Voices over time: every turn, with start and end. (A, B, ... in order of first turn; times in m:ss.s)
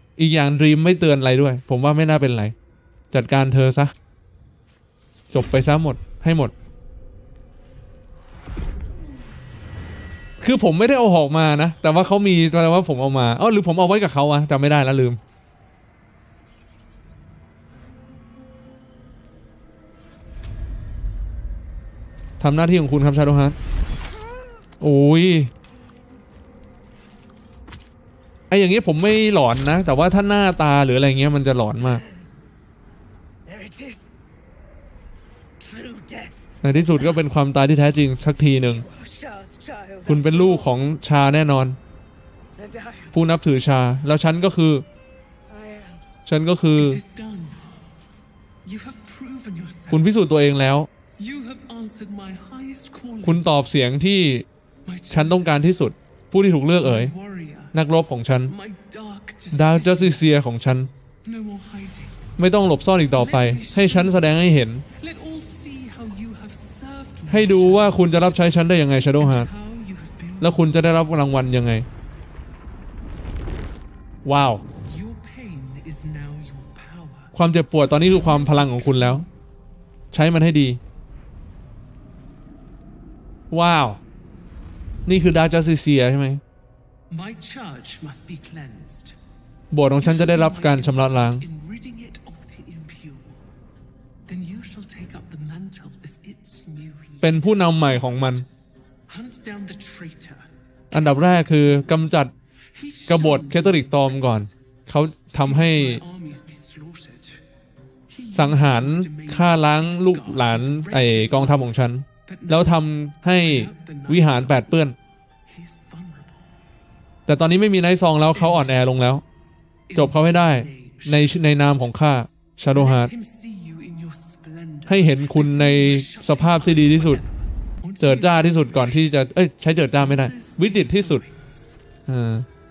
0:00.2-0:02.5 A
0:03.1-0:03.9 A
0:05.3-0:06.5 A
0:10.4-0:15.2 A
0:22.4-0:23.6 A
0:24.1-0:24.6 B
0:24.8-0:25.5 A
0:28.5-0:32.0 A
0:31.8-0:32.3 B
0:33.4-0:34.1 B
0:35.6-0:37.4 B
0:36.6-0:38.8 A
0:38.6-0:40.8 B
0:40.0-0:41.8 A
0:42.6-0:43.2 B
0:43.1-0:44.8 A
0:45.5-0:46.0 B
0:46.2-0:47.0 A
0:46.8-0:47.8 C
0:48.6-0:50.1 C
0:49.9-0:50.9 A
0:51.2-0:53.5 C
0:53.2-0:54.4 A
0:54.8-0:55.7 C
0:55.1-0:57.1 A
0:56.7-0:57.8 C
0:57.7-0:58.5 A
0:58.4-1:00.3 C
0:59.5-1:00.9 A
1:01.2-1:02.2 C
1:02.4-1:04.8 A
1:03.1-1:04.4 C
1:05.0-1:08.3 C
1:07.3-1:09.5 A
1:09.1-1:10.9 C
1:10.4-1:11.8 A
1:14.2-1:14.6 A
1:14.8-1:17.3 C
1:17.3-1:19.2 A
1:18.0-1:19.3 C
1:20.1-1:20.8 A
1:23.5-1:24.0 A
1:25.0-1:26.4 A
1:27.1-1:29.2 C
1:29.7-1:31.4 A
1:29.9-1:33.4 C
1:34.2-1:38.5 C
1:37.2-1:38.4 A
1:39.1-1:40.4 C
1:40.9-1:42.3 A
1:42.7-1:44.5 C
1:43.1-1:46.0 A
1:45.3-1:47.4 C
1:48.1-1:54.8 C
1:48.3-1:55.0 A
1:55.5-1:56.5 C
1:57.3-1:59.2 A
1:58.3-1:58.8 C
1:59.9-2:01.9 C
1:59.9-2:03.1 A
2:02.7-2:09.2 C
2:04.8-2:07.2 A
2:08.0-2:11.2 A
2:09.9-2:11.8 C
2:12.1-2:12.4 A